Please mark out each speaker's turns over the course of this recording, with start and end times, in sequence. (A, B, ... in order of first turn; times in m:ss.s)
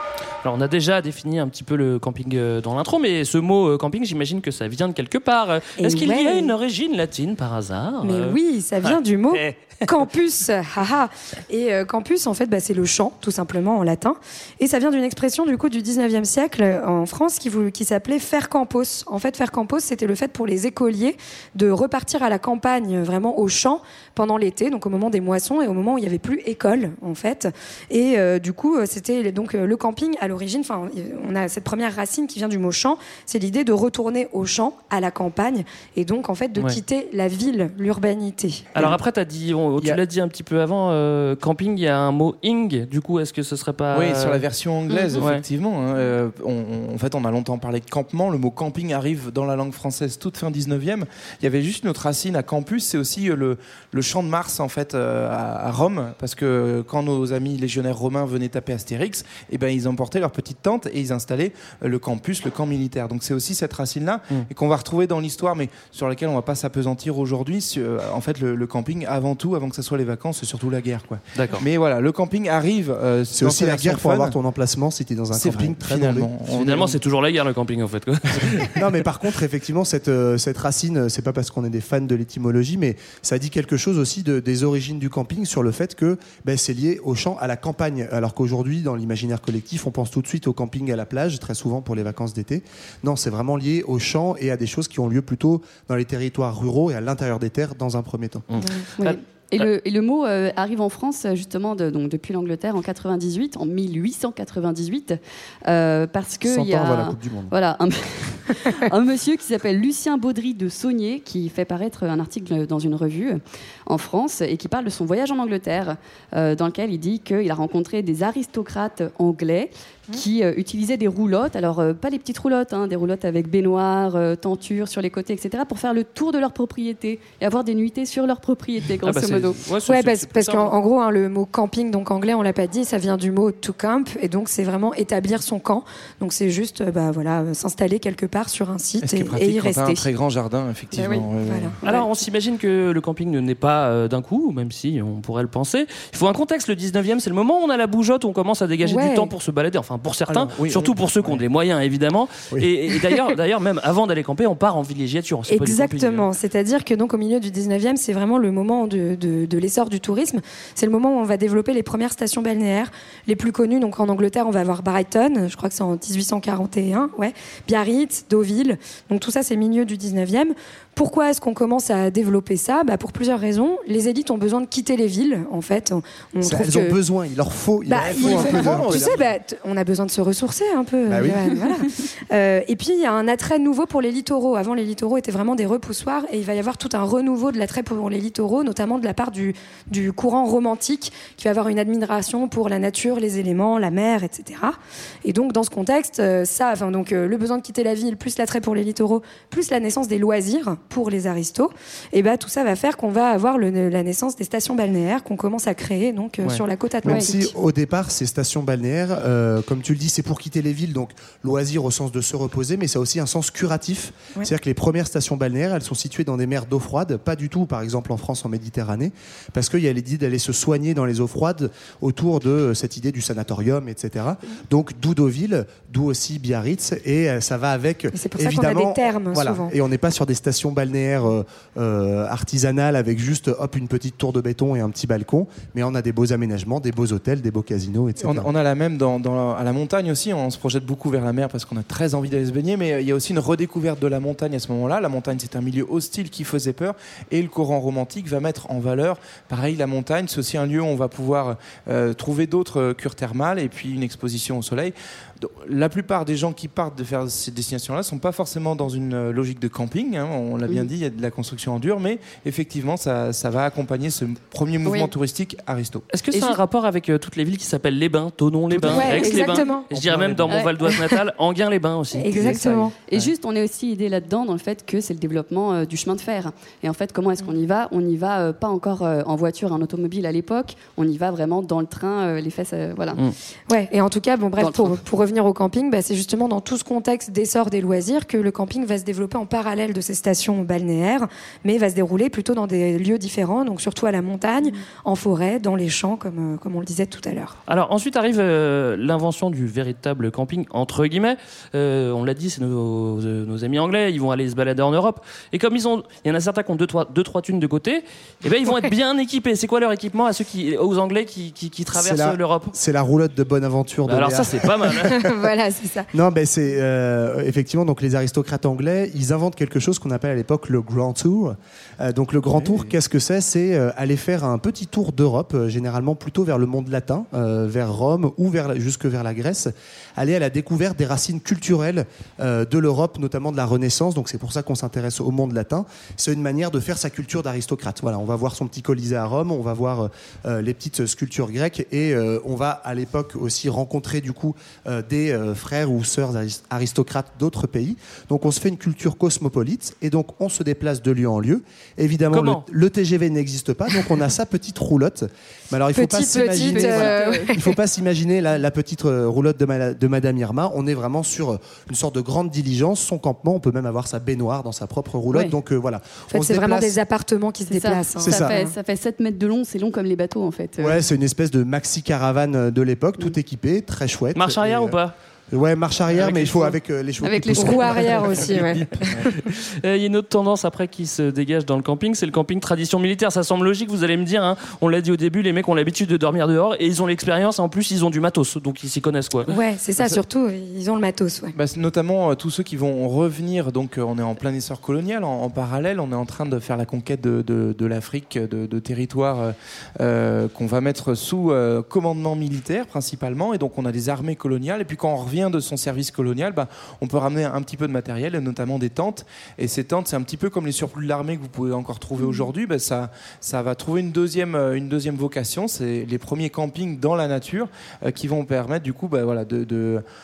0:00.4-0:09.8 A
0:05.8-0:06.5 B
0:08.0-0:38.7 B
0:38.8-0:44.4 A
0:43.9-1:14.3 C
0:44.9-0:45.2 D
0:45.2-0:45.4 A
1:11.3-1:11.6 A
1:13.3-1:16.3 E
1:15.3-1:17.0 C
1:16.4-1:18.8 A
1:18.8-1:38.4 E
1:38.5-1:39.6 A
1:39.0-2:09.6 D
1:46.4-1:47.5 E
2:09.0-2:10.7 A
2:09.9-2:20.0 B
2:19.0-2:21.7 C
2:20.9-2:21.8 B
2:21.8-2:36.3 A
2:28.8-2:29.3 B
2:30.3-2:31.4 E
2:35.5-2:57.0 B
2:56.4-2:59.2 E
2:57.9-3:27.5 B
2:57.9-2:59.3 C
3:01.1-3:01.5 E
3:27.0-3:58.5 E
3:48.1-3:49.7 B
3:58.2-4:26.1 C
4:24.8-4:25.1 D
4:26.1-4:33.3 A
4:28.7-4:30.5 C
4:28.9-4:29.9 B
4:30.5-4:30.7 D
4:30.8-4:31.2 B
4:32.1-4:32.9 B
4:33.0-4:43.2 D
4:43.7-4:57.6 B
4:44.6-4:45.0 D
4:57.7-5:12.7 A
5:11.9-5:15.1 E
5:14.1-5:15.3 A
5:15.0-5:16.1 B
5:16.1-6:06.9 E
5:52.3-5:52.6 A
5:55.9-5:57.7 B
5:56.5-5:57.5 D
6:06.3-6:08.7 B
6:07.7-6:11.0 D
6:08.2-6:08.5 E
6:10.8-6:15.0 E
6:14.3-6:15.1 A
6:15.5-6:18.4 E
6:16.2-6:16.7 A
6:17.2-6:18.0 D
6:17.6-6:19.3 B
6:19.2-6:29.5 A
6:29.5-6:31.5 B
6:31.5-7:00.0 C